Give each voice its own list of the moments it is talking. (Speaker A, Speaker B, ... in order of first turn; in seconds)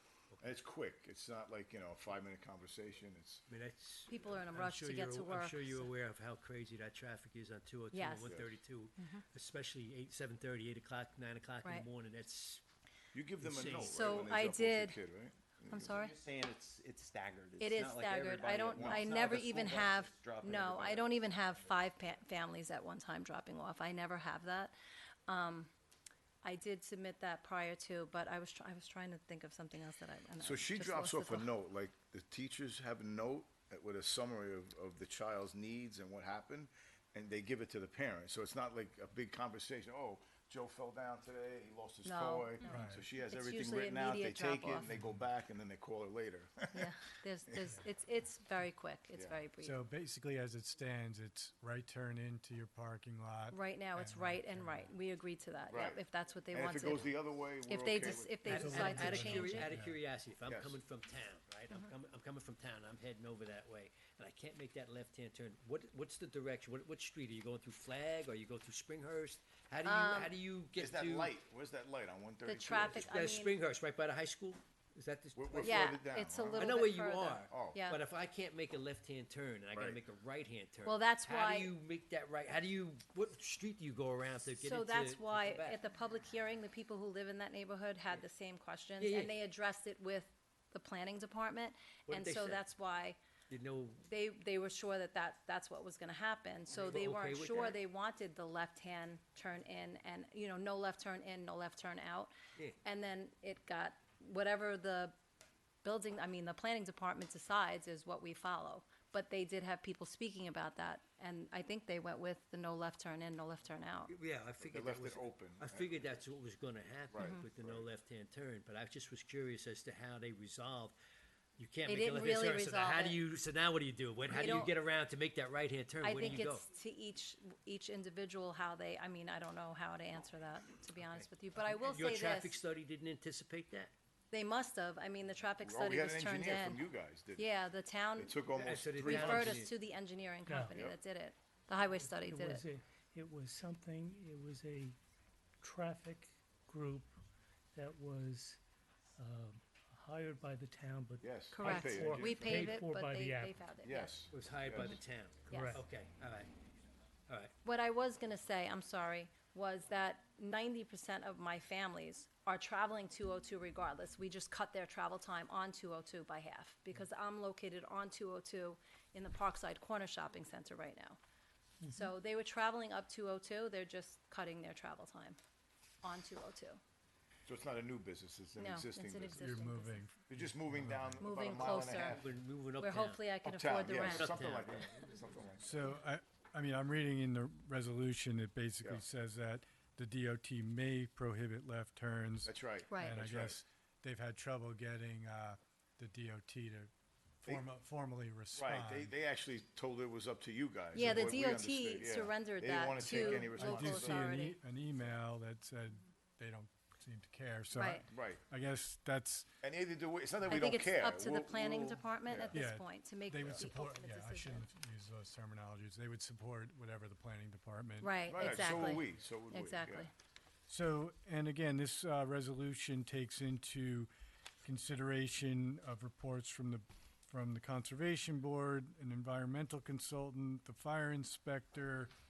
Speaker A: 0.4-3.5, 8.2-8.6, 13.1-16.1, 18.8-19.1, 30.4-46.9, 49.1-49.4, 55.7-58.9, 60.5-60.8, 70.8-73.2, 75.4-76.8, 77.5-77.8, 79.7-80.0, 114.6-116.1, 117.1-117.9, 135.6-137.5, 138.2-139.6, 151.2-152.8, 153.8-155.0, 177.5-179.6, 180.3-182.3, 183.4-185.8, 192.4-193.6, 198.6-204.3, 208.1-208.4, 209.6-212.6, 218.3-220.1
Speaker B: 3.5-12.6, 13.4-14.2, 58.5-71.4, 72.9-85.8, 89.0-89.3, 92.1-92.6, 93.5-94.0, 96.8-97.8, 114.1-121.0, 121.6-126.6, 131.0-133.9, 138.6-139.7, 154.3-156.5, 182.2-183.2, 184.0-185.1
Speaker C: 4.1-5.9, 7.9-8.3, 9.0-9.2, 13.9-15.0, 15.7-16.2, 17.6-24.7, 25.3-25.7, 26.4-31.5, 42.0-44.9, 46.7-49.8, 53.5-59.7, 69.8-70.3, 72.4-73.6, 75.6-78.0, 80.8-81.7, 84.6-93.2, 94.1-102.3, 102.8-105.2, 105.8-114.1, 121.9-123.2, 124.3-124.7, 126.0-132.6, 134.3-136.8, 137.4-142.7, 151.5-154.2, 155.5-155.8, 157.6-171.2, 171.9-175.4, 176.0-176.8, 178.6-180.0, 181.2-182.2, 182.8-184.4, 192.9-193.2, 200.9-204.6, 207.7-208.1, 210.5-214.7, 218.0-220.1
Speaker D: 15.9-21.3
Speaker E: 42.7-43.0, 49.6-54.9, 58.4-60.0, 179.3-182.1, 185.6-196.9, 197.4-199.1, 200.9-201.4, 203.0-209.5, 212.5-219.0, 220.7-224.1, 224.6-232.1
Speaker F: 140.5-140.8, 142.0-145.0, 145.6-147.1, 147.7-148.6, 149.2-153.7, 155.5-155.8, 171.8-172.1